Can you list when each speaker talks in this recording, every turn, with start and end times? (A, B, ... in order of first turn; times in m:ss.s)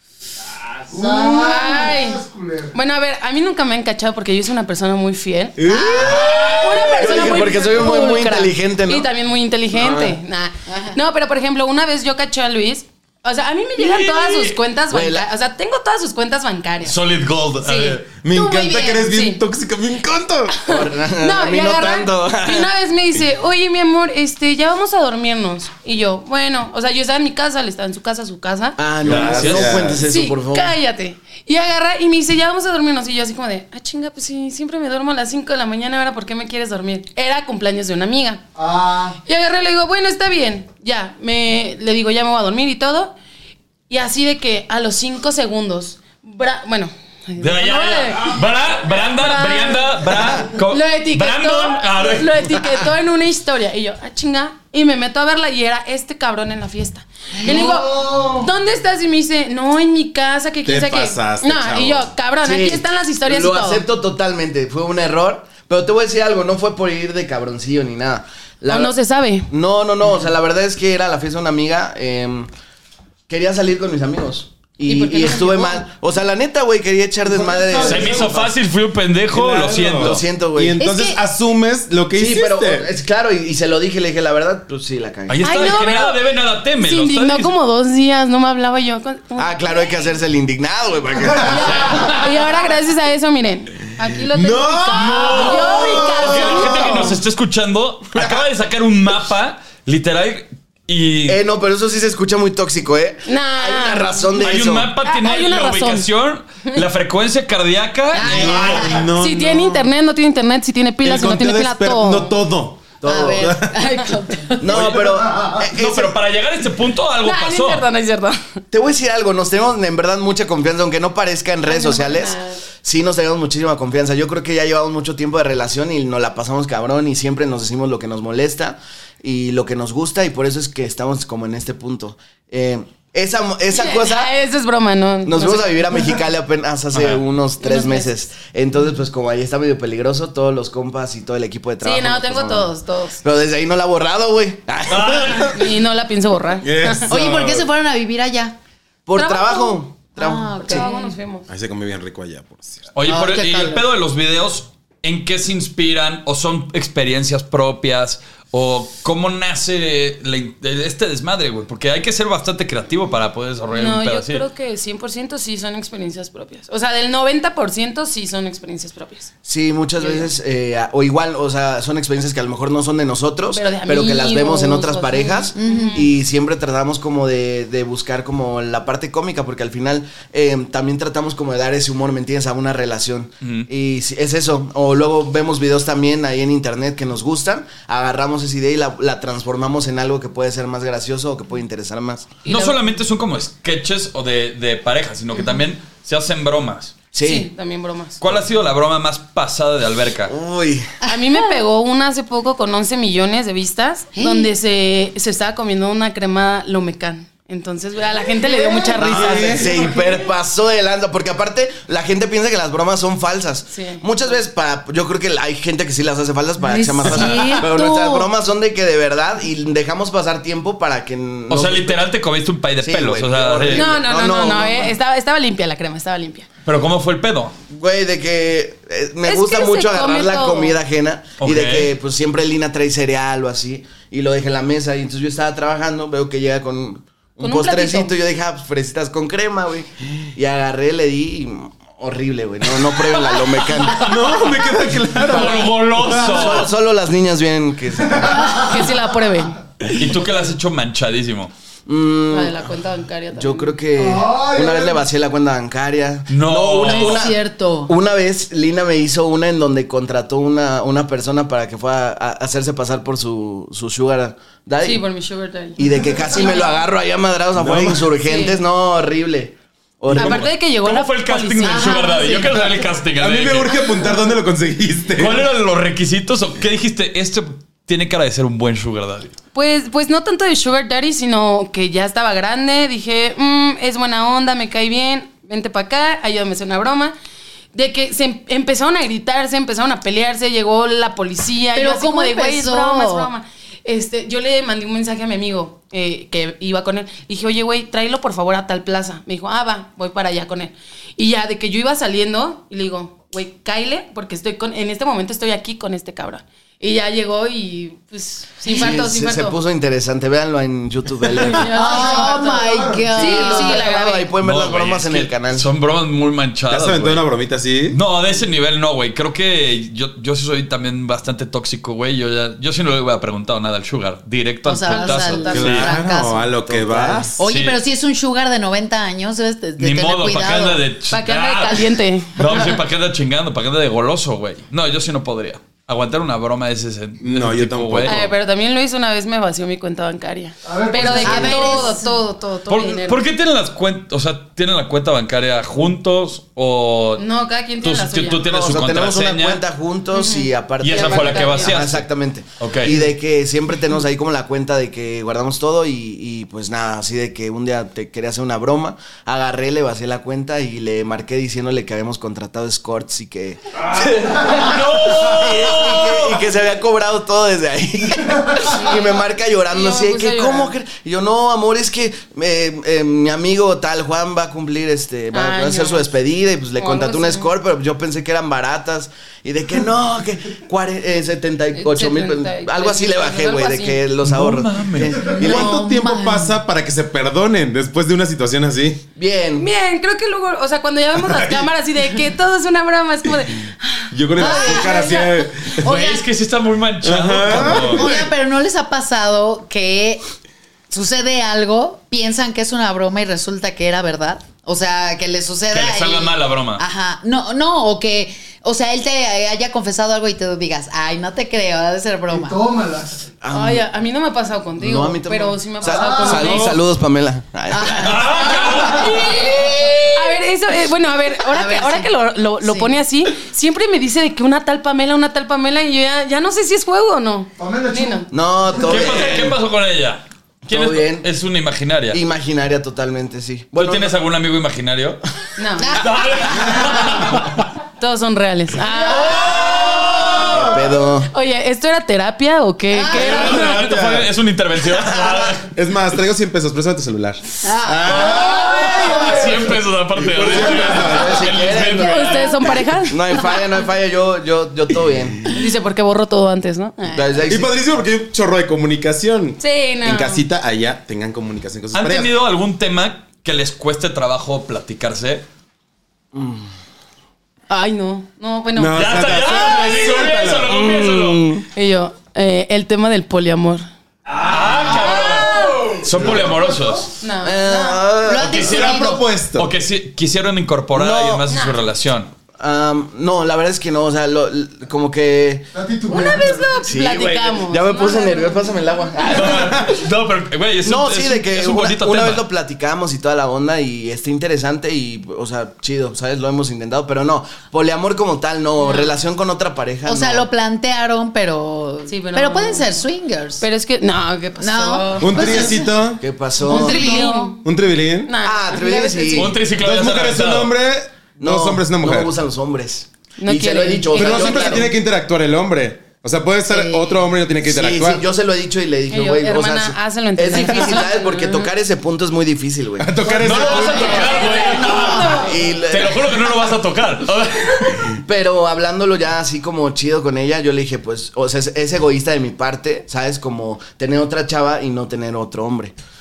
0:00.9-0:02.8 A
0:01.0-0:02.2 B
0:02.7-0:17.0 B
0:05.7-0:06.4 C
0:05.7-0:06.4 D
0:06.4-0:06.9 E
0:06.7-0:07.0 F
0:06.9-0:09.1 D
0:09.7-0:10.2 D
0:10.7-0:11.0 C
0:13.8-0:14.6 E
0:14.9-0:15.3 D
0:16.8-0:18.0 E
0:17.6-0:18.0 B
0:18.1-0:20.6 F
0:18.3-0:19.1 C
0:19.0-0:19.4 B
0:20.6-0:22.7 D
0:20.7-0:28.9 B
0:28.8-0:30.8 D
0:29.0-0:29.9 E
0:29.0-0:30.0 F
0:30.0-0:38.4 B
0:38.6-0:39.2 A
0:39.2-0:43.2 B
0:43.9-1:03.8 B
0:47.4-0:52.8 E
0:57.4-0:58.5 A
1:00.6-1:02.1 F
1:02.4-1:09.0 D
1:08.7-1:09.5 B
1:09.5-1:12.5 D
1:13.3-1:18.5 D
1:14.8-1:15.9 B
1:17.3-1:18.4 A
1:17.8-1:20.2 E
1:19.3-1:22.9 F
1:20.0-1:20.8 D
1:20.8-1:21.2 C
1:22.2-1:25.7 D
1:25.3-1:27.5 E
1:25.4-1:26.2 B
1:26.8-1:30.0 B
1:29.4-1:32.0 D
1:31.4-1:37.2 B
1:34.3-1:37.2 F
1:34.9-1:41.4 E
1:41.3-1:44.9 D
1:43.3-1:44.3 B
1:44.4-1:49.0 E
1:45.0-1:46.1 B
1:48.2-1:49.1 C
1:48.2-1:49.9 F
1:49.1-1:52.4 B
1:51.0-1:53.8 F
1:53.0-1:53.5 D
1:53.1-1:54.8 C
1:54.6-1:56.2 D
1:54.7-1:57.9 E
1:55.2-1:55.6 A
1:57.2-1:58.6 B
1:58.7-2:14.3 D
2:01.6-2:02.6 B
2:13.7-2:16.0 B
2:15.2-2:25.4 D
2:16.9-2:17.2 E
2:17.6-2:18.1 B
2:21.8-2:23.2 B
2:24.9-2:25.6 E
2:25.5-2:27.1 B
2:26.6-2:27.7 F
2:27.1-2:28.6 C
2:29.1-2:30.9 D
2:29.2-2:29.8 B
2:30.2-2:31.1 C
2:30.6-2:31.5 B
2:31.5-2:32.9 F
2:33.0-2:44.5 E
2:33.1-2:33.8 C
2:43.7-2:49.3 B
2:49.4-3:12.3 D
2:50.0-2:50.3 B
2:53.5-2:56.1 B
2:55.6-2:56.0 C
3:03.4-3:03.7 E
3:12.4-3:12.8 B
3:12.4-3:17.0 E
3:17.1-3:17.5 D
3:17.2-3:18.2 B
3:18.2-3:20.3 E
3:20.3-3:20.9 D
3:21.0-3:21.5 C
3:21.1-3:29.6 B
3:24.2-3:24.5 C
3:29.0-3:29.7 F
3:29.1-3:42.0 D
3:29.6-3:30.2 A
3:33.7-3:34.1 B
3:36.6-3:38.3 C
3:37.0-3:38.0 B
3:41.5-3:43.9 E
3:42.8-3:44.9 D
3:43.7-3:46.5 B
3:46.6-3:47.6 E
3:47.7-4:04.1 D
3:49.2-3:50.8 B
3:51.4-3:51.9 E
3:57.4-3:58.2 B
4:03.9-4:06.7 F
4:05.3-4:06.7 E
4:05.3-4:05.6 D
4:06.2-4:08.4 D
4:08.0-4:08.9 A
4:08.5-4:09.6 B
4:09.9-4:11.5 E
4:11.9-4:12.6 D
4:12.3-4:13.8 B
4:13.3-4:25.0 D
4:14.0-4:15.0 A
4:16.3-4:17.3 E
4:16.8-4:17.9 C
4:24.8-4:26.8 B
4:25.8-4:30.5 D
4:27.6-4:28.1 F
4:28.2-4:28.6 B
4:30.1-4:32.8 B
4:30.1-4:33.8 E
4:31.6-4:32.6 C
4:33.2-4:35.5 F
4:35.2-4:39.4 E
4:39.5-4:47.1 B
4:47.7-5:09.6 B
4:51.7-4:53.3 C
5:08.7-5:11.7 D
5:11.3-5:14.3 B
5:11.7-5:13.1 A
5:11.8-5:13.8 C
5:13.1-5:15.7 D
5:14.4-5:17.2 E
5:16.7-5:18.0 F
5:17.9-5:25.9 E
5:24.6-5:26.5 C
5:24.9-5:25.8 B
5:25.5-5:27.4 F
5:26.6-5:27.3 D
5:27.4-5:30.8 C
5:27.4-5:27.8 E
5:29.8-5:38.2 E
5:31.1-5:32.8 B
5:37.2-5:38.3 F
5:38.0-5:43.2 B
5:40.6-5:41.8 A
5:41.1-5:42.2 C
5:42.7-5:47.3 E
5:47.2-5:48.5 B
5:47.8-5:49.6 E
5:48.4-6:25.7 D
5:50.1-5:51.9 B
5:50.8-5:52.1 E
5:52.6-5:53.0 E
6:03.8-6:06.4 E
6:08.7-6:10.7 B
6:15.3-6:16.1 B
6:16.8-6:17.5 B
6:21.7-6:24.0 B
6:24.2-6:25.4 E
6:25.3-6:26.6 C
6:25.3-6:29.0 F
6:29.2-6:29.7 D
6:29.6-6:35.4 B
6:34.1-6:35.9 F
6:34.4-6:35.2 C
6:35.8-6:38.2 E
6:35.9-6:36.2 C
6:37.0-6:38.3 F
6:37.6-6:40.2 C
6:40.9-6:52.6 C
6:45.7-6:46.8 E
6:52.3-6:53.3 A
6:53.4-6:53.9 D
6:53.5-6:56.8 B
6:54.8-6:58.4 D
6:55.9-6:56.5 A
6:57.7-6:58.4 C
6:58.0-6:59.9 E
6:58.5-7:08.3 B
6:59.3-7:00.0 C
7:01.5-7:03.0 C
7:07.6-7:09.4 A
7:08.3-7:09.6 D
7:08.8-7:12.2 E
7:10.6-7:11.3 D
7:12.1-7:14.2 D
7:13.8-7:15.2 E
7:15.6-7:16.1 B
7:15.8-7:17.1 C
7:16.0-7:17.5 E
7:18.0-7:19.7 B
7:19.3-7:20.7 E
7:20.6-7:21.3 D
7:21.3-7:23.8 B
7:22.9-7:23.4 C
7:23.1-7:25.6 E
7:23.2-7:24.3 F
7:25.6-7:29.6 F
7:27.6-7:29.1 C
7:28.2-7:32.6 E
7:28.6-7:29.7 A
7:30.2-7:31.5 F
7:31.0-7:32.4 D
7:32.0-7:33.4 B
7:33.1-7:35.5 D
7:35.5-7:37.3 B
7:37.1-7:37.8 D
7:37.5-7:42.3 F
7:39.6-7:40.4 B
7:41.9-7:45.4 E
7:46.3-7:46.7 D
7:47.7-7:49.7 B
7:48.8-7:50.7 F
7:48.9-7:51.6 E
7:50.7-7:51.7 D
7:51.7-7:53.9 B
7:54.3-7:57.1 E
7:54.6-7:55.1 A
7:54.9-7:56.0 B
7:56.1-7:57.1 A
7:57.2-7:58.0 B
7:57.4-7:58.6 D
7:58.2-7:59.2 C
7:58.4-8:02.3 E
7:58.6-7:59.7 F
8:00.9-8:01.4 D
8:01.5-8:01.8 B
8:02.6-8:05.7 D
8:05.7-8:06.7 A
8:06.1-8:08.8 B
8:06.8-8:09.7 D
8:09.2-8:12.4 E
8:10.8-8:20.5 D
8:18.8-8:19.1 B
8:20.0-8:23.6 C
8:22.1-8:22.9 B
8:23.6-8:25.9 B
8:24.6-8:25.9 C
8:25.2-8:26.2 F
8:26.2-8:27.2 D
8:26.6-8:29.6 B
8:26.7-8:27.5 C
8:27.6-8:28.4 F
8:28.4-8:29.6 D
8:29.4-8:30.7 E
8:29.8-8:32.3 F
8:31.4-8:34.9 D
8:33.4-8:34.9 B
8:34.2-8:38.2 F
8:36.7-8:37.2 C
8:37.6-8:43.2 D
8:39.1-8:41.7 B
8:43.0-8:44.2 F
8:43.4-8:48.1 E
8:43.4-8:45.8 B
8:43.9-8:45.4 C
8:45.4-8:46.4 D
8:48.2-8:55.9 D